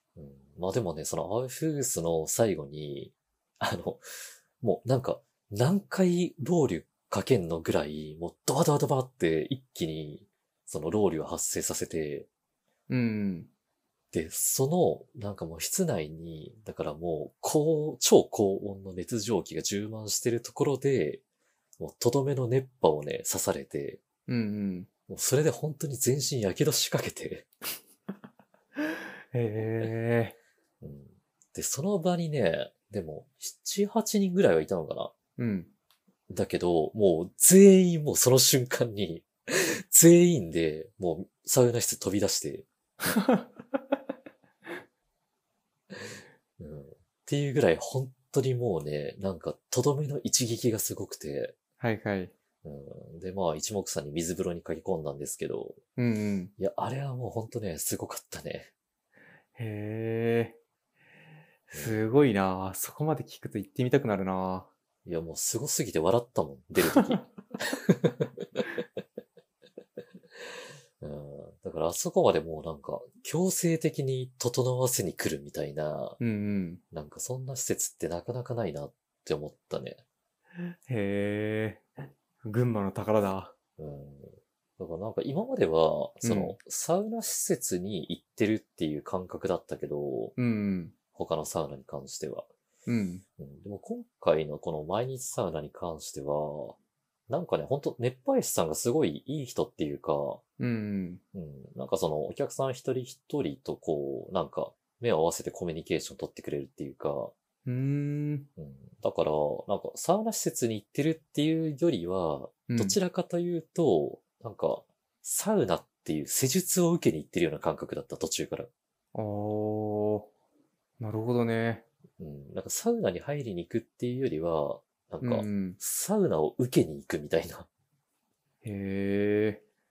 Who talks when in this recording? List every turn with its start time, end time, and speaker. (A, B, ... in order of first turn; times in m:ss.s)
0:00.2-0:04.0 A
0:04.6-0:12.3 A
0:12.9-0:13.5 B
0:14.1-0:21.2 A
0:21.8-0:24.0 A
0:24.3-0:24.9 B
0:25.1-0:27.5 A
0:28.8-0:30.4 B
0:30.8-0:35.1 A
0:35.4-0:35.7 B
0:36.3-0:42.7 A
0:43.0-0:43.4 B
0:46.6-0:51.5 A
0:51.8-0:52.3 B
0:52.6-0:55.8 A
0:56.0-0:56.5 B
0:56.6-0:58.7 A
0:59.6-1:00.6 B
1:01.7-1:02.0 A
1:01.7-1:04.7 B
1:05.0-1:08.7 A
1:06.9-1:07.2 B
1:11.0-1:16.2 A
1:16.2-1:16.8 B
1:16.9-1:20.0 A
1:20.6-1:21.9 B
1:22.4-1:23.5 B
1:23.8-1:30.4 A
1:26.2-1:26.6 B
1:30.4-1:30.9 B
1:31.1-1:32.5 A
1:32.9-1:33.2 B
1:33.4-1:36.8 A
1:37.3-1:40.4 A
1:40.6-1:41.2 B
1:41.3-1:47.3 A
1:47.6-1:48.5 B
1:48.6-1:58.7 A
1:52.7-1:53.0 B
1:59.1-2:00.3 B
2:01.0-2:01.8 B
2:02.2-2:07.7 A
2:05.2-2:05.8 B
2:08.6-2:09.6 B